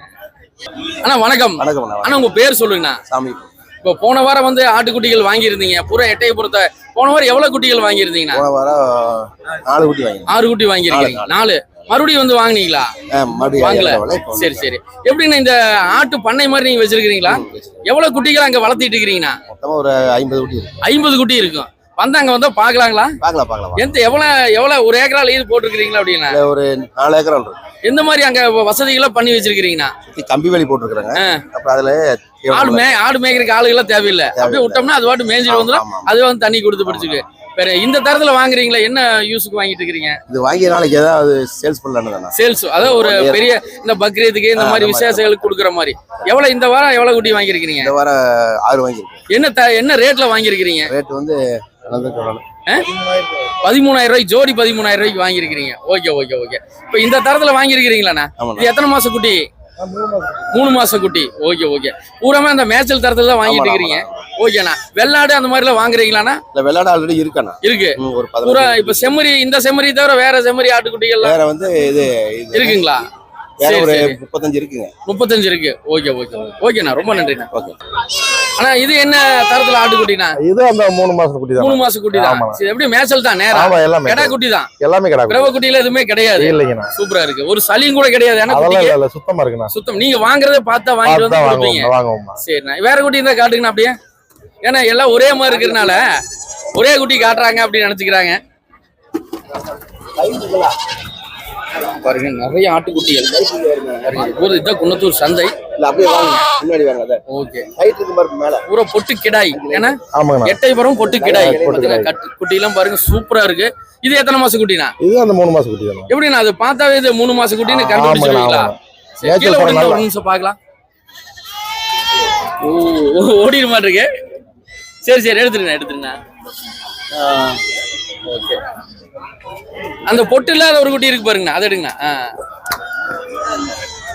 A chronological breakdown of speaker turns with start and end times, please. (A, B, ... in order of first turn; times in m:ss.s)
0:01.0-0:03.0 A
0:01.6-0:02.2 B
0:03.1-0:03.5 B
0:03.8-0:08.5 A
0:08.3-0:10.3 B
0:10.3-0:12.9 A
0:10.9-0:11.4 B
0:13.1-0:14.7 B
0:13.5-0:19.4 A
0:17.3-0:17.8 B
0:19.5-0:20.7 B
0:20.8-0:23.2 A
0:23.2-0:23.9 B
0:23.8-0:26.4 A
0:26.3-0:27.6 B
0:27.8-0:29.9 A
0:30.1-0:33.0 B
0:31.1-0:31.4 A
0:32.5-0:40.2 A
0:34.3-0:34.9 B
0:35.5-0:36.1 B
0:36.8-0:37.2 B
0:40.3-0:43.4 B
0:42.3-0:48.0 A
0:44.5-0:45.6 B
0:47.8-0:49.2 B
0:49.3-0:50.9 A
0:50.9-0:52.4 B
0:52.8-0:53.5 C
0:53.6-0:59.4 A
0:58.4-0:58.7 B
0:59.8-1:00.6 C
1:00.5-1:06.4 A
1:03.4-1:04.3 B
1:06.5-1:09.1 B
1:07.6-1:11.4 A
1:11.2-1:12.8 B
1:12.5-1:13.1 A
1:13.6-1:14.2 A
1:13.6-1:14.9 B
1:15.0-1:17.5 A
1:18.6-1:20.4 A
1:20.4-1:22.6 C
1:21.6-1:24.7 A
1:23.5-1:25.5 C
1:25.3-1:29.0 A
1:26.3-1:26.9 C
1:28.5-1:29.7 C
1:29.7-1:34.0 A
1:31.0-1:32.4 C
1:34.6-1:36.1 A
1:35.4-1:36.0 B
1:36.7-1:38.4 A
1:40.2-1:40.7 B
1:41.8-1:43.4 A
1:43.3-1:44.2 B
1:44.0-1:45.6 A
1:45.8-1:47.2 B
1:47.3-1:47.7 A
1:47.8-1:48.6 B
1:48.7-1:54.9 A
1:49.5-1:49.9 B
1:50.1-1:50.6 C
1:51.0-1:51.9 B
1:51.2-1:52.1 C
1:55.0-1:56.1 C
1:56.1-2:00.6 A
1:57.6-2:00.1 C
2:02.6-2:04.1 A
2:05.0-2:06.2 A
2:07.2-2:07.6 A
2:08.3-2:08.6 A
2:10.1-2:12.3 A